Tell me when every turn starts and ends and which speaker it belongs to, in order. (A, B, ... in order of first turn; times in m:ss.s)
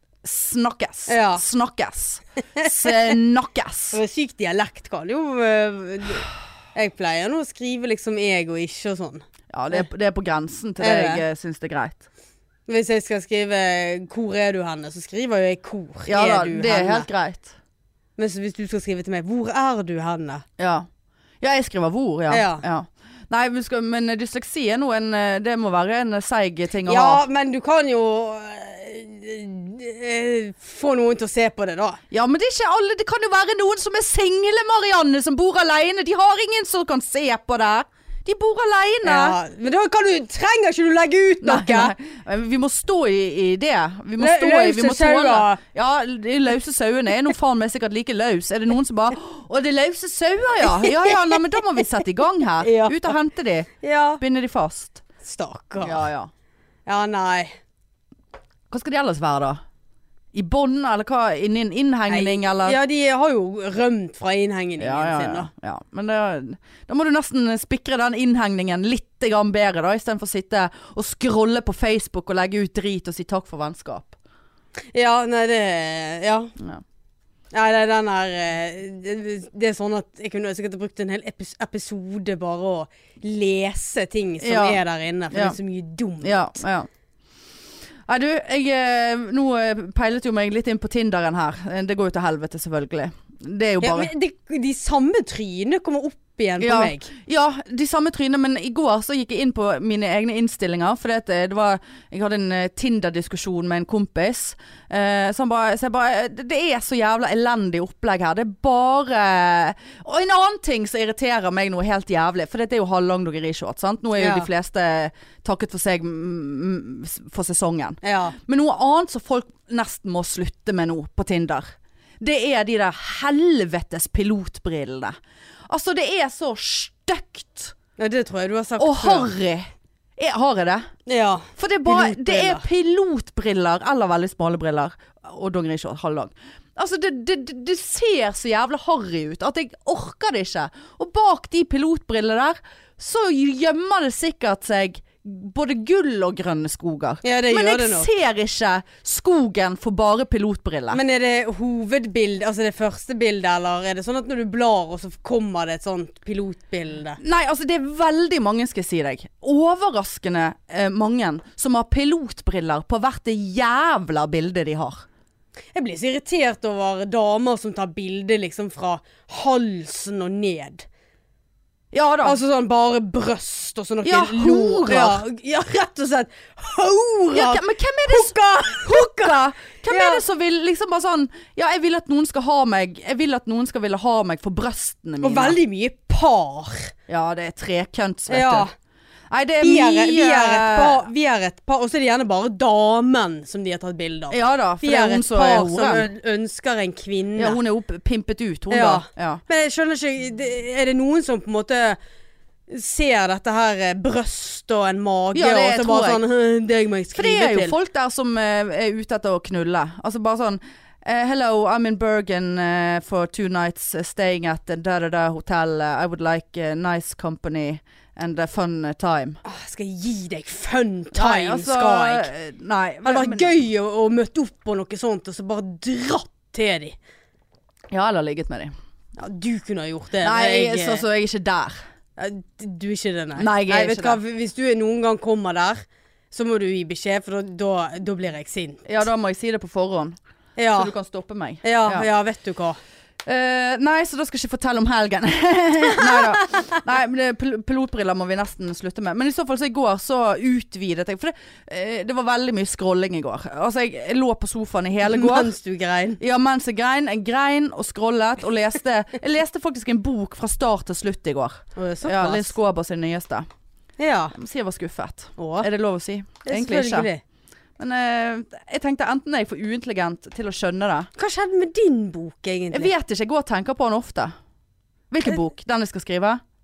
0:00.2-0:04.0 A
0:01.1-0:01.4 B
0:02.6-0:02.9 B
0:03.9-0:09.2 B
0:09.5-0:12.0 A
0:10.8-0:11.2 B
0:12.7-0:17.1 B
0:16.1-0:17.5 A
0:18.2-0:20.4 B
0:20.6-0:20.9 A
0:21.4-0:27.2 A
0:22.3-0:22.6 B
0:26.8-0:32.0 B
0:32.1-0:39.4 A
0:39.0-0:41.9 B
0:41.4-0:55.0 A
0:44.2-0:45.6 B
0:50.8-0:51.1 B
0:52.6-0:53.1 B
0:53.8-0:54.2 B
0:55.2-0:56.0 B
0:55.8-0:56.3 A
0:56.9-0:57.6 B
0:58.7-0:59.6 A
1:00.3-1:02.8 A
1:02.1-1:05.5 B
1:04.8-1:14.1 A
1:14.9-1:16.5 B
1:17.5-1:26.6 B
1:24.4-1:24.8 A
1:25.3-1:25.6 A
1:26.2-1:26.9 A
1:28.1-1:34.1 A
1:33.8-1:37.1 B
1:36.6-2:05.1 A
1:54.2-1:54.5 B
1:58.0-1:58.4 B
2:05.7-2:07.7 A
2:08.0-2:09.3 B
2:08.8-2:10.9 A
2:11.1-2:12.6 B
2:11.6-2:31.0 A
2:27.2-2:28.1 B
2:30.9-2:37.2 B
2:37.2-2:45.0 A
2:45.7-2:50.8 B
2:51.9-2:52.4 A
2:52.2-3:00.2 B
2:54.0-2:55.2 A
2:57.3-3:05.6 A
3:05.2-3:06.9 B
3:07.1-3:08.7 A
3:08.3-3:08.7 B
3:09.3-3:11.1 A
3:09.6-3:17.6 B
3:14.3-3:16.1 A
3:17.4-3:19.4 A
3:18.7-3:22.0 B
3:22.7-3:27.7 B
3:25.3-3:26.2 A
3:27.1-3:39.4 A
3:39.4-3:42.3 B
3:41.1-3:43.5 A
3:43.0-3:47.0 B
3:47.9-3:48.7 A
3:49.2-3:51.0 B
3:50.2-3:51.8 A
3:52.2-3:58.8 B
3:53.4-3:54.2 A
3:58.8-4:00.2 A
4:00.6-4:00.9 B
4:00.7-4:02.1 A
4:01.6-4:02.8 B
4:03.2-4:15.5 A
4:15.0-4:16.2 B
4:16.2-4:23.5 A
4:21.8-4:22.5 B
4:24.0-4:24.3 B
4:24.3-4:27.1 A
4:25.4-4:25.7 B
4:26.4-4:27.2 B
4:27.8-4:31.1 A
4:31.2-4:32.9 B
4:32.7-4:34.3 A
4:35.1-4:36.4 A